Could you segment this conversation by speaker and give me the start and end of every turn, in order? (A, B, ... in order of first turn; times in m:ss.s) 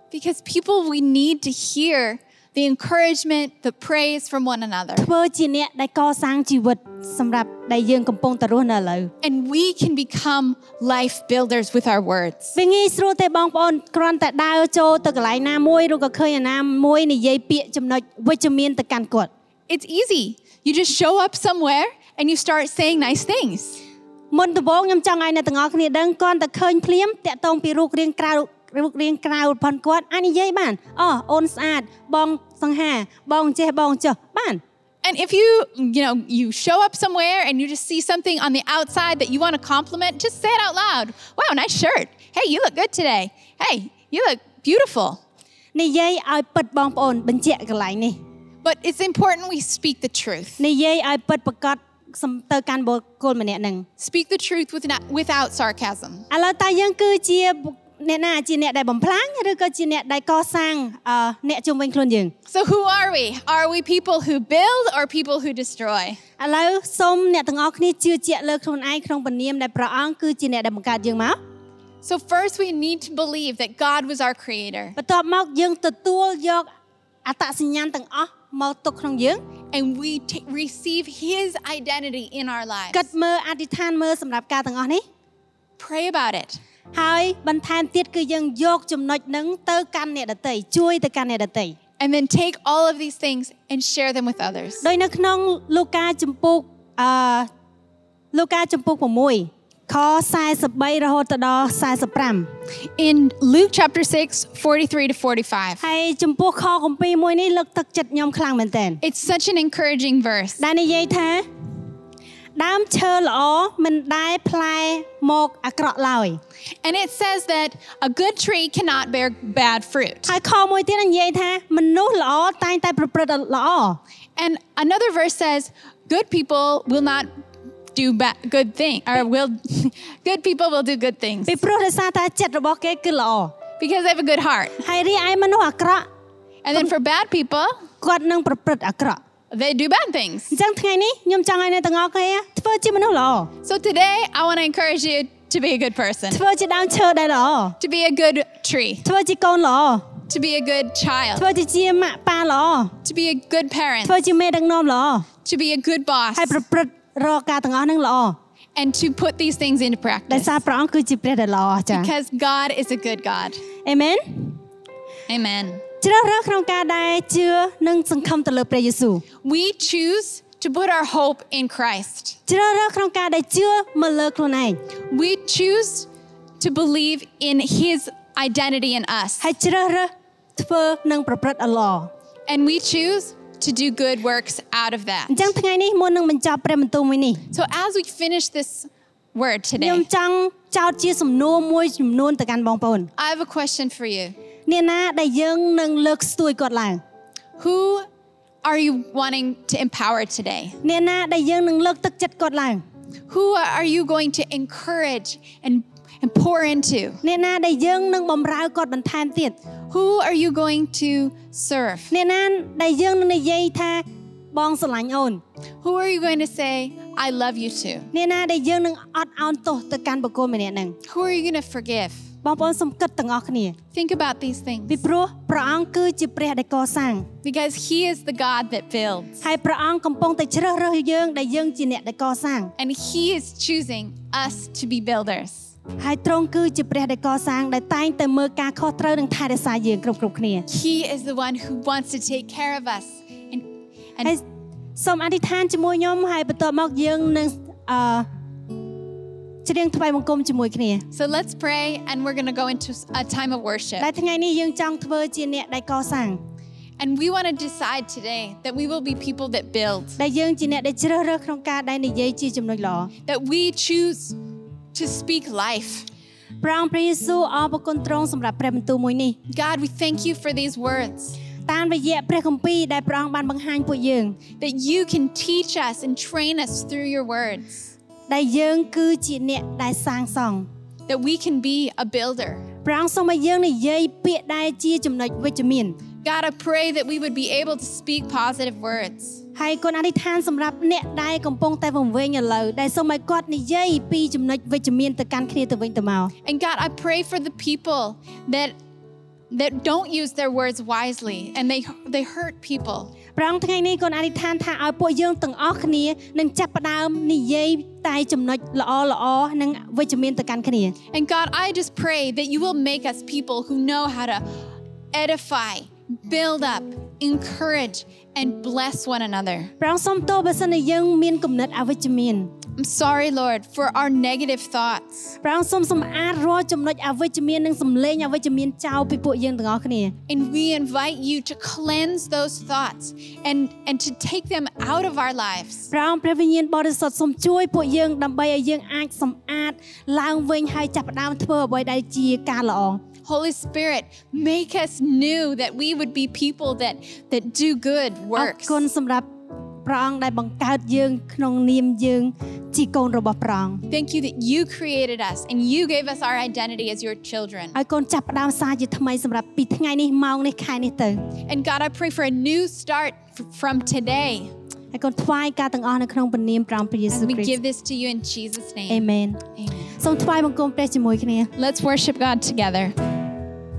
0:00.1-0:05.1 A
0:05.0-0:09.1 B
0:09.2-0:12.6 A
0:12.6-0:19.3 B
0:19.7-0:23.8 A
0:24.3-0:34.6 B
0:35.0-0:45.2 A
0:45.7-0:48.2 B
0:48.6-0:50.6 A
0:50.6-0:53.8 B
0:54.0-0:56.2 A
0:56.3-1:02.3 B
1:02.5-1:06.2 A
1:06.4-1:11.4 B
1:12.0-1:15.0 A
1:15.0-1:16.7 B
1:17.2-1:19.4 B
1:19.7-1:23.1 A
1:22.9-1:25.0 B
1:25.8-1:26.6 A
1:26.9-1:31.7 B
1:32.0-1:34.9 A
1:34.8-1:37.5 B
1:38.3-1:42.5 B
1:43.0-1:45.8 A
1:45.8-1:49.0 B
1:49.0-1:50.6 A
1:50.6-1:51.4 B
1:52.6-1:56.4 B
1:56.8-2:00.4 A
2:00.3-2:04.0 B
2:04.4-2:07.3 A
2:07.9-2:11.6 A
2:11.4-2:13.6 B
2:13.8-2:14.8 A
2:14.8-2:16.1 B
2:16.6-2:17.8 A
2:18.0-2:19.2 B
2:19.5-2:20.6 A
2:20.5-2:23.5 B
2:23.6-2:26.4 A
2:26.3-2:27.8 B
2:27.8-2:29.0 A
2:29.0-2:30.1 B
2:30.3-2:31.5 A
2:31.4-2:32.9 B
2:33.0-2:34.2 A
2:34.0-2:35.3 B
2:35.4-2:36.6 A
2:36.3-2:38.4 B
2:38.8-2:40.5 A
2:40.3-2:42.1 B
2:41.9-2:43.6 A
2:43.8-2:44.6 B
2:45.3-2:45.8 A
2:46.0-2:49.2 B
2:49.4-2:52.4 A
2:52.5-2:54.8 B
2:55.1-2:56.1 A
2:56.6-2:59.5 A
2:59.4-3:02.1 B
3:02.5-3:05.5 A
3:05.3-3:07.4 B
3:07.5-3:10.0 A
3:09.8-3:13.1 B
3:13.2-3:14.4 A
3:14.7-3:17.0 B
3:17.6-3:18.0 A
3:18.6-3:20.8 A
3:20.8-3:22.8 B
3:23.3-3:27.2 A
3:27.2-3:29.6 B
3:29.9-3:32.1 A
3:32.1-3:35.4 B
3:35.8-3:38.1 A
3:38.1-3:41.0 B
3:41.0-3:42.2 A
3:42.4-3:43.8 B
3:43.9-3:45.0 A
3:44.9-3:47.3 B
3:47.4-3:49.4 A
3:49.4-3:52.7 B
3:52.8-3:55.7 A
3:56.0-4:00.6 B
4:00.7-4:04.3 A
4:05.0-4:08.2 B
4:09.6-4:11.0 B
4:11.1-4:14.1 A
4:14.0-4:16.4 B
4:17.0-4:20.2 A
4:20.2-4:23.1 B
4:23.3-4:24.4 A
4:24.9-4:26.1 A
4:26.6-4:29.4 B
4:29.5-4:31.4 A
4:31.6-4:34.4 B
4:34.6-4:37.9 A
4:38.3-4:40.7 B
4:41.1-4:42.6 A
4:42.8-4:46.0 B
4:46.2-4:49.4 A
4:49.5-4:56.3 B
4:56.4-4:58.7 A
4:59.5-5:03.1 A
5:03.3-5:11.0 B
5:11.1-5:14.4 A
5:15.1-5:19.7 A
5:19.8-5:22.5 B
5:22.8-5:25.3 A
5:25.4-5:30.1 B
5:30.3-5:35.9 A
5:35.9-5:43.0 B
5:43.2-5:48.8 A
5:48.3-5:49.2 B
5:49.8-5:53.8 B
5:53.9-5:57.8 A
5:57.7-6:01.2 B
6:01.5-6:04.5 A
6:04.9-6:07.6 B
6:07.1-6:09.9 A
6:08.9-6:09.4 B
6:10.0-6:11.5 B
6:11.6-6:12.9 A